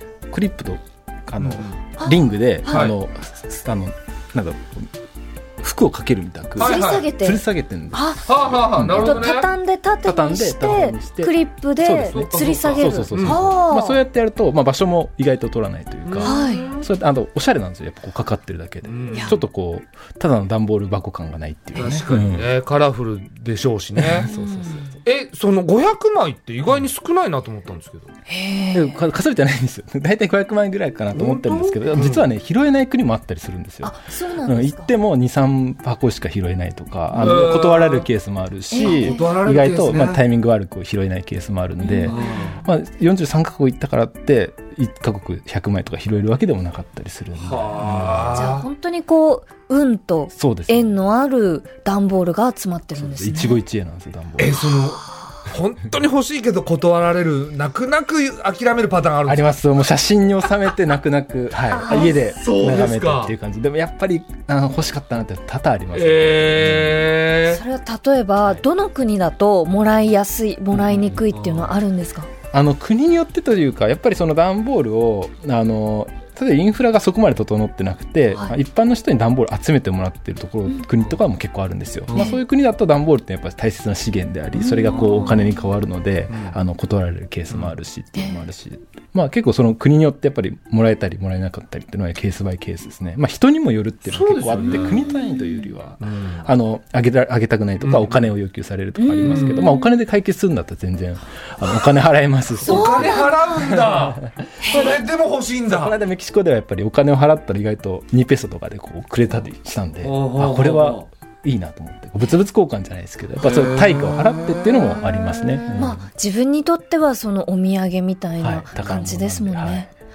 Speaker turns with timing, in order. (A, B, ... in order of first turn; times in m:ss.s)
0:00.3-0:04.9 A
0:01.4-0:01.8 B
0:02.0-0:02.9 C
0:02.7-0:02.9 B
0:05.6-0:09.4 A
0:06.6-0:07.1 B
0:06.6-0:08.2 C
0:08.3-0:09.5 B
0:08.9-0:14.0 C
0:10.0-0:22.5 A
0:12.0-0:13.4 B
0:16.0-0:16.8 B
0:16.2-0:16.7 C
0:18.8-0:19.4 B
0:21.7-0:24.3 B
0:24.0-0:24.8 A
0:24.2-0:24.9 C
0:25.0-0:28.1 B
0:28.3-0:29.0 C
0:28.7-0:48.4 A
0:31.1-0:32.2 B
0:33.8-0:34.9 C
0:37.1-0:38.1 B
0:38.7-0:39.3 C
0:38.8-0:40.2 B
0:41.8-0:42.3 C
0:42.1-0:42.6 B
0:47.4-0:48.6 B
0:48.3-0:53.6 C
0:50.3-0:50.9 A
0:53.0-0:54.6 A
0:54.4-0:59.5 B
0:59.2-1:07.1 A
1:01.7-1:02.3 C
1:01.9-1:03.3 B
1:05.9-1:07.6 B
1:07.5-1:12.3 C
1:11.0-1:11.7 B
1:12.5-1:44.9 A
1:22.1-1:22.3 B
1:22.1-1:22.4 C
1:24.6-1:25.3 C
1:24.9-1:25.4 B
1:26.3-1:26.5 B
1:28.2-1:28.4 C
1:34.1-1:35.1 B
1:34.9-1:35.6 C
1:36.0-1:36.4 B
1:37.8-1:38.2 B
1:39.0-1:39.9 C
1:39.2-1:39.6 B
1:42.6-1:46.0 B
1:42.6-1:43.7 C
1:44.6-1:44.9 C
1:45.7-1:56.0 A
1:50.0-1:51.0 B
1:53.4-1:54.8 B
1:55.7-1:59.9 C
1:58.4-1:59.9 A